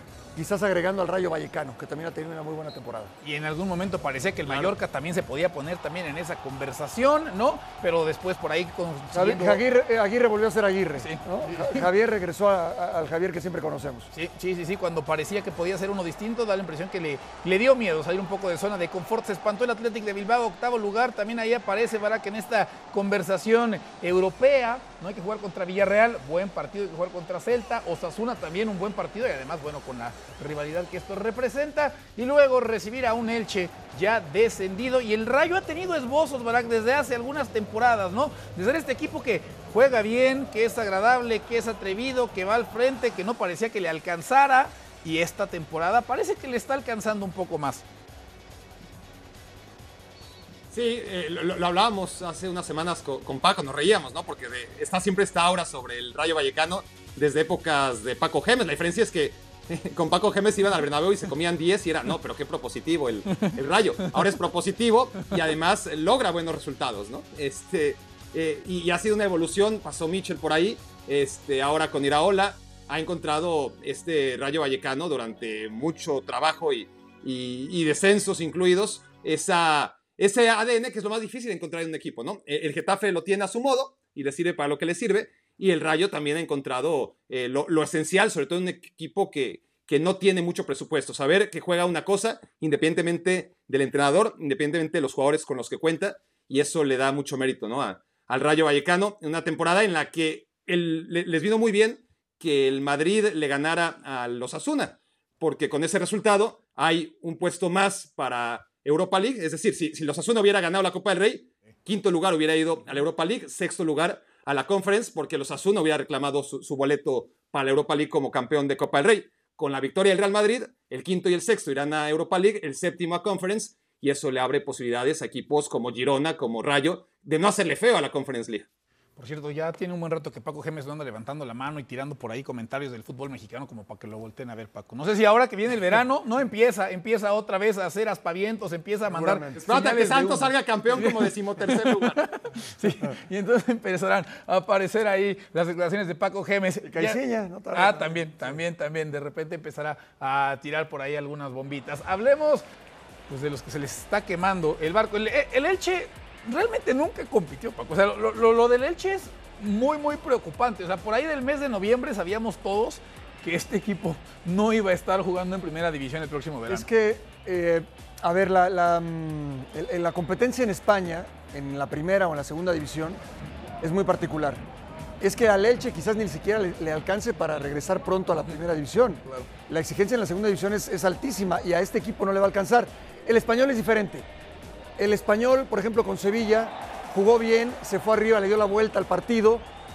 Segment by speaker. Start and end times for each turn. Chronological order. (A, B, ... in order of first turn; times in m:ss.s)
0:00.3-0:03.1 A
0:03.2-0:09.6 B
0:04.4-0:04.7 A
0:09.1-0:14.1 A
0:11.0-0:11.8 B
0:14.1-0:47.8 B
0:50.7-2:08.7 C
2:09.2-2:27.2 B
2:19.0-2:19.6 A
2:19.6-2:22.2 C
2:26.8-2:28.6 A
2:27.7-2:32.6 B
2:33.3-2:46.9 B
2:46.7-2:53.2 A
2:53.8-2:54.6 A
2:55.2-3:04.3 A
3:05.0-3:09.7 A